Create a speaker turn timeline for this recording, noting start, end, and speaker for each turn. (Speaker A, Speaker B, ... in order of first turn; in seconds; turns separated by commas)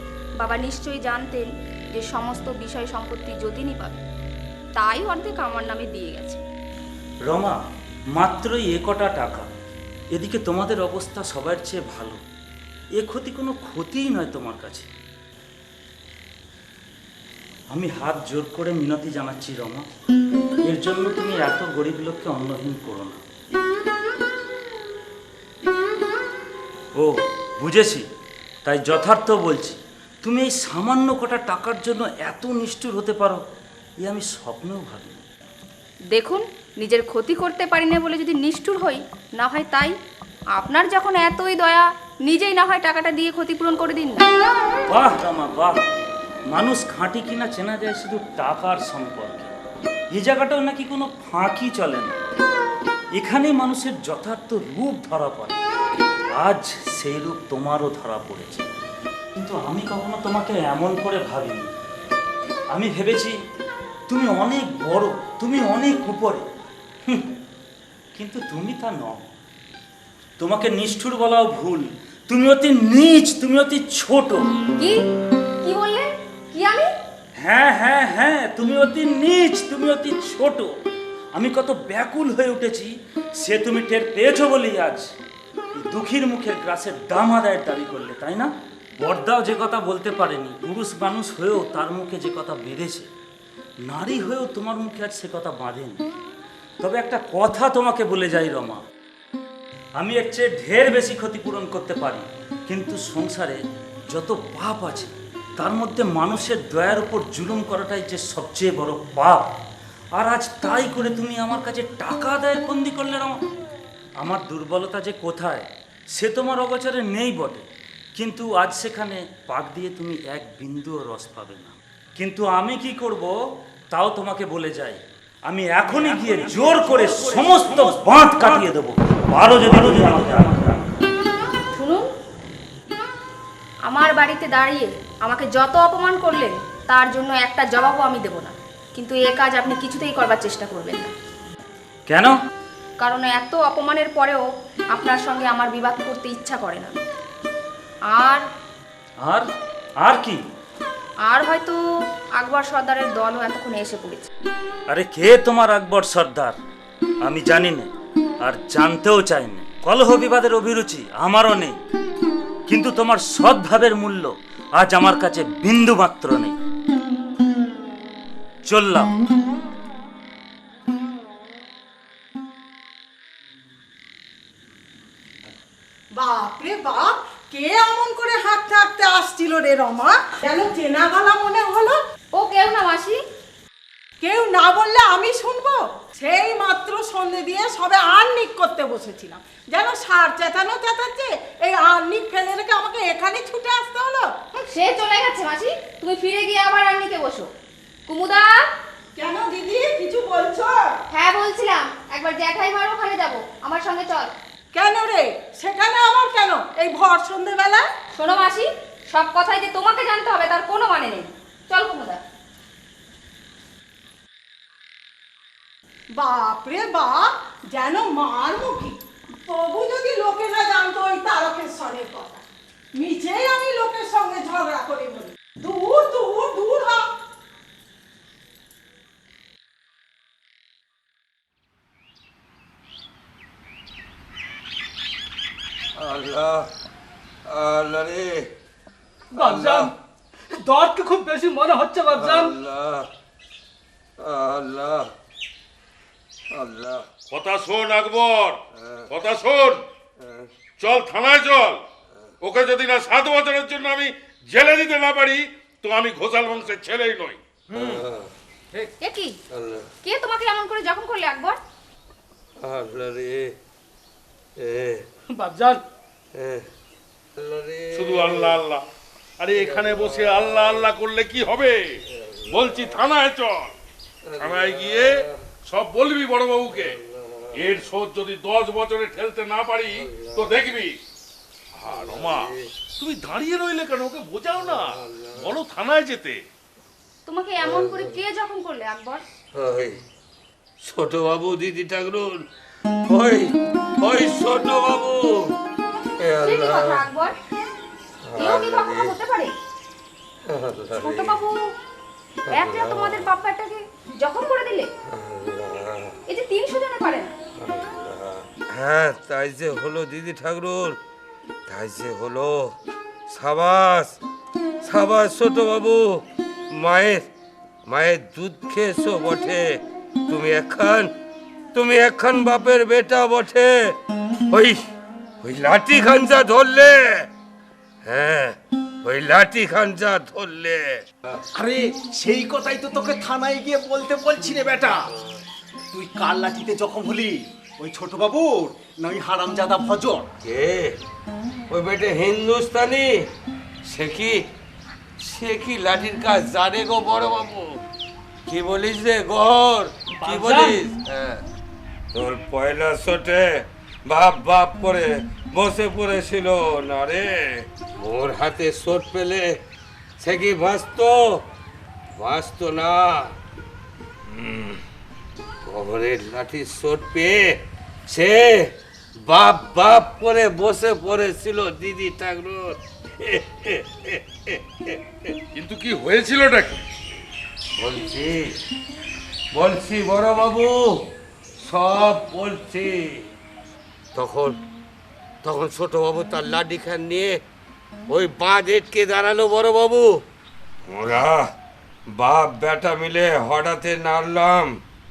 Speaker A: 0.4-4.0, Speaker A: 4.8-6.4, Speaker B: 7.3-7.6, Speaker B: 8.2-9.5, Speaker B: 10.1-12.2, Speaker B: 13.0-14.9, Speaker B: 17.7-19.8, Speaker B: 20.6-23.2, Speaker B: 26.9-28.1, Speaker B: 28.6-33.4, Speaker B: 34.0-35.2, Speaker A: 36.1-39.9, Speaker A: 40.5-44.3, Speaker B: 44.9-45.8, Speaker B: 46.5-49.5, Speaker B: 50.1-52.1, Speaker B: 53.1-55.6, Speaker B: 56.3-58.7, Speaker B: 59.4-61.7, Speaker B: 62.7-63.3, Speaker B: 64.1-66.5, Speaker B: 68.1-69.2, Speaker B: 70.4-74.5, Speaker A: 75.6-76.9, Speaker B: 77.4-80.7, Speaker B: 81.3-85.1, Speaker B: 85.8-93.1, Speaker B: 93.9-96.0, Speaker B: 96.8-98.8, Speaker B: 100.0-109.5, Speaker B: 110.2-113.4, Speaker B: 114.2-123.3, Speaker B: 123.9-131.1, Speaker C: 125.9-128.7, Speaker A: 131.7-132.1, Speaker A: 133.9-141.1, Speaker B: 142.1-142.4, Speaker A: 143.0-146.9, Speaker A: 148.1-148.4, Speaker B: 150.0-150.4, Speaker A: 151.3-151.8, Speaker A: 152.4-154.3, Speaker B: 154.9-156.5, Speaker B: 157.2-157.9, Speaker B: 158.4-161.8, Speaker B: 162.7-166.6, Speaker B: 168.7-169.1, Speaker D: 176.2-182.0, Speaker A: 182.3-183.2, Speaker D: 184.2-194.7, Speaker A: 194.7-197.5, Speaker A: 198.1-198.6, Speaker D: 199.2-200.9, Speaker A: 201.1-204.3, Speaker D: 204.7-207.8, Speaker A: 208.1-212.2, Speaker D: 216.2-222.4, Speaker D: 223.0-227.1, Speaker E: 235.9-236.7, Speaker E: 237.4-238.5, Speaker F: 239.3-239.9, Speaker E: 239.4-239.9, Speaker F: 240.6-242.6, Speaker E: 242.1-243.1, Speaker E: 244.2-245.1, Speaker E: 246.5-247.1, Speaker C: 247.3-249.8, Speaker E: 248.8-249.1, Speaker E: 250.2-250.5, Speaker C: 250.8-251.8, Speaker C: 252.4-257.4, Speaker G: 257.7-258.1, Speaker E: 257.7-258.3, Speaker A: 259.0-259.4, Speaker E: 259.5-259.9, Speaker A: 260.0-261.6, Speaker E: 262.6-263.5, Speaker E: 264.6-265.0, Speaker F: 265.3-265.8, Speaker E: 266.3-266.7, Speaker E: 267.4-268.6, Speaker C: 267.9-268.8, Speaker C: 269.4-273.7, Speaker E: 269.5-270.8, Speaker E: 272.2-272.9, Speaker E: 274.2-275.3, Speaker C: 274.4-277.0, Speaker E: 276.7-277.7, Speaker C: 277.5-281.0, Speaker E: 279.9-280.5, Speaker C: 281.7-286.4, Speaker E: 281.9-282.7, Speaker E: 284.7-285.4, Speaker A: 287.2-289.2, Speaker E: 287.6-288.1, Speaker E: 289.5-290.0, Speaker E: 290.8-292.4, Speaker E: 293.1-295.5, Speaker E: 296.2-297.0, Speaker A: 296.4-297.4, Speaker E: 298.2-299.1, Speaker A: 298.4-299.5, Speaker E: 300.4-301.4, Speaker A: 301.0-301.6, Speaker E: 302.5-303.3, Speaker A: 302.5-304.9, Speaker E: 305.1-306.1, Speaker A: 306.3-307.3, Speaker E: 307.6-311.0, Speaker E: 311.7-312.7, Speaker E: 313.3-314.1, Speaker E: 314.8-317.2, Speaker E: 317.9-321.1, Speaker E: 321.7-324.0, Speaker E: 324.5-324.8, Speaker E: 325.4-327.3, Speaker E: 328.0-331.0, Speaker G: 331.5-335.1, Speaker G: 335.9-340.3, Speaker E: 340.4-341.0, Speaker E: 341.7-343.2, Speaker E: 343.9-344.4, Speaker E: 345.2-347.8, Speaker E: 348.5-351.4, Speaker E: 352.1-359.6, Speaker E: 360.2-361.4, Speaker E: 362.2-363.3, Speaker E: 364.2-364.8, Speaker E: 365.6-367.5, Speaker E: 368.1-368.7, Speaker E: 369.2-375.3, Speaker C: 375.5-376.8, Speaker E: 377.8-378.6, Speaker E: 379.5-381.0, Speaker E: 381.6-383.2, Speaker E: 384.1-384.6, Speaker E: 385.4-387.4, Speaker E: 388.1-390.2, Speaker E: 390.9-391.5, Speaker E: 392.1-394.8